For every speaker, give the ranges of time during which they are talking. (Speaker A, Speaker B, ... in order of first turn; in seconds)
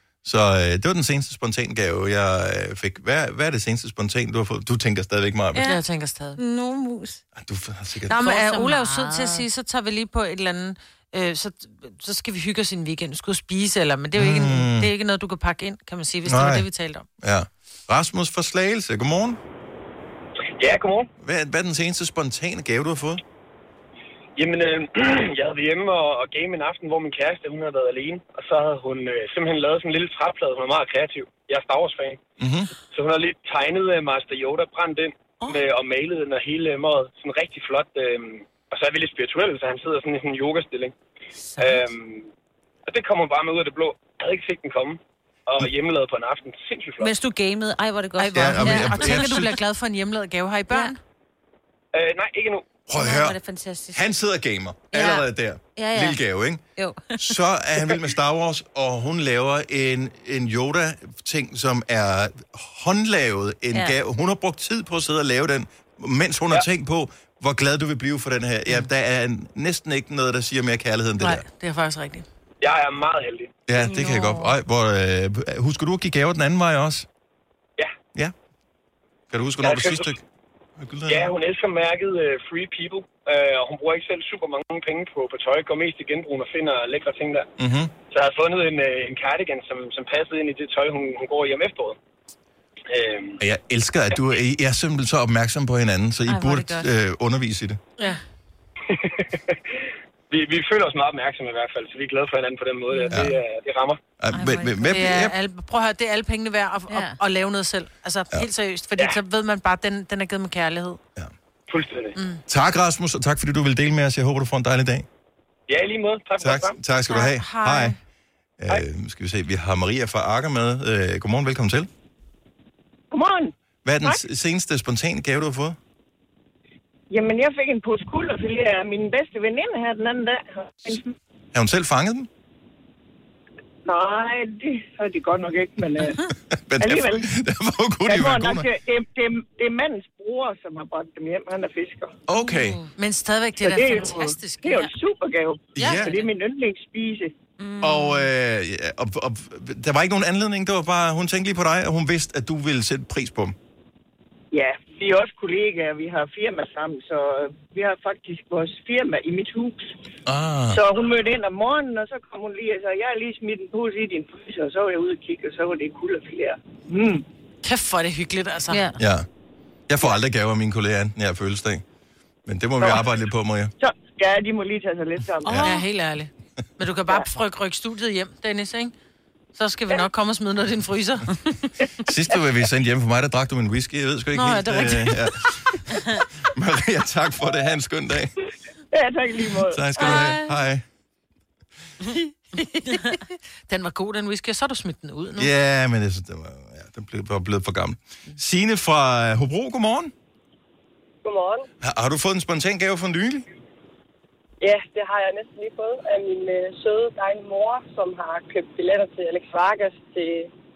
Speaker A: 0.2-5.7, 7.3-8.2, 14.2-14.9, 16.2-16.7, 17.2-19.4, 21.2-23.2, 32.4-32.7, 48.3-49.5, 52.9-53.4, 53.9-56.6, 57.2-71.4, 73.7-77.1, 79.3-80.2, 80.8-81.3, 87.6-87.9, 93.4-97.8, 103.1-103.4, 104.2-105.3, 112.5-115.1, 116.4-118.0, 118.6-121.9, 123.8-125.8, 131.5-132.3, 136.5-138.7, 142.3-142.8, 145.8-146.2, 147.8-153.6, 160.3-160.8, 169.0-169.3, 169.9-171.8, 172.5-173.7, 175.4-175.8, 182.0-185.8, 186.5-188.3, 189.7-190.8, 195.4-200.1, 201.8-203.5
Speaker B: 5.5-5.8, 6.4-7.2, 8.2-9.4, 41.4-41.9, 47.0-49.5, 52.9-54.0, 54.9-56.2, 56.8-57.3, 73.8-74.5, 96.3-96.9, 104.3-105.0, 106.9-107.2, 142.4-142.8, 145.8-146.2, 147.6-148.3, 168.7-169.0, 175.6-175.8, 190.0-190.5, 192.9-193.2
Speaker C: 5.6-6.4, 8.1-17.1, 48.2-51.0, 71.2-72.3, 104.9-111.0, 112.2-112.4, 117.1-118.0, 142.9-144.9, 167.6-168.9, 175.6-178.9, 179.6-181.4, 184.3-185.2, 192.8-195.5
Speaker D: 20.6-21.1, 24.4-32.2, 32.9-40.9, 41.6-42.3, 42.9-47.1, 51.9-52.7, 72.6-73.5, 79.6-80.1, 81.1-87.5, 88.1-92.0, 92.9-93.4, 98.9-99.8, 100.3-104.0, 111.7-112.2, 115.7-116.8
Speaker E: 123.1-124.2, 127.1-131.1, 133.8-136.2, 136.8-137.3, 138.1-142.2, 143.6-147.3, 154.5-159.9, 160.7-167.2, 173.8-175.6, 188.9-189.9
Speaker F: 201.2-201.7, 204.6-210.5